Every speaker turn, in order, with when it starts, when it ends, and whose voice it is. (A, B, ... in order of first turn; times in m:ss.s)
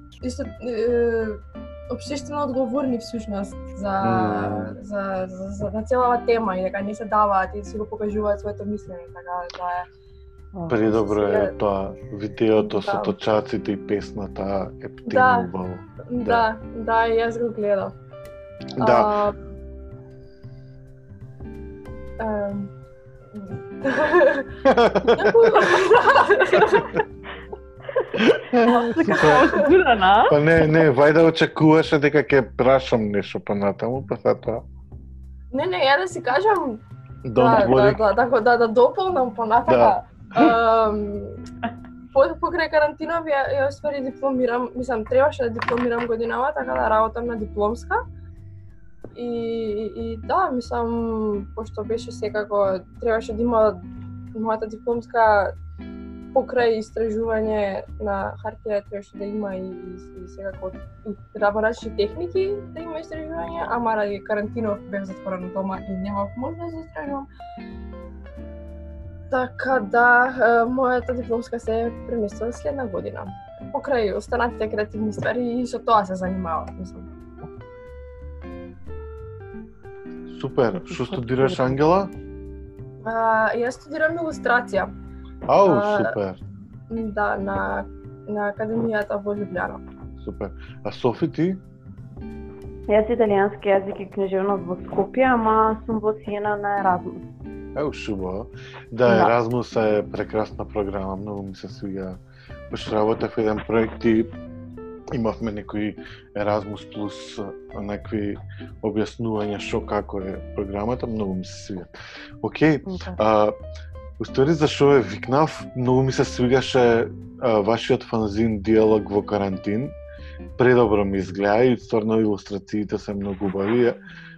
0:00.2-0:09.9 A
0:04.0-0:04.8 B
0:10.5-0:10.8 C
0:10.7-0:16.5 B
0:10.9-0:11.5 A
0:12.6-0:13.2 A
0:15.1-0:15.5 A
0:16.1-0:17.9 A
0:18.8-0:19.1 B
0:18.8-0:19.4 A
0:22.2-0:22.7 A
0:23.4-0:24.5 A
0:24.7-0:25.7 B
0:25.1-0:27.0 A
0:28.1-0:29.6 B
0:28.7-0:30.6 C
0:29.2-0:29.7 A
0:30.3-0:34.6 B
0:35.5-0:36.8 A
0:37.2-0:38.1 B
0:37.4-0:41.4 A
0:39.7-0:40.5 B
0:42.1-0:48.0 A
0:49.2-0:53.8 A
0:54.3-0:55.5 A
0:56.3-1:07.3 A
1:09.3-1:17.1 A
1:20.3-1:22.1 B
1:20.7-1:21.8 C
1:23.0-1:24.9 A
1:25.5-1:26.4 B
1:25.6-1:26.2 A
1:26.9-1:29.8 A
1:30.2-1:31.6 B
1:32.9-1:37.2 C
1:37.8-1:42.2 B
1:39.1-1:39.3 C
1:42.7-1:44.3 B
1:45.1-1:53.6 B
1:52.9-1:53.2 C
1:54.2-2:00.0 B
2:00.6-2:04.0 B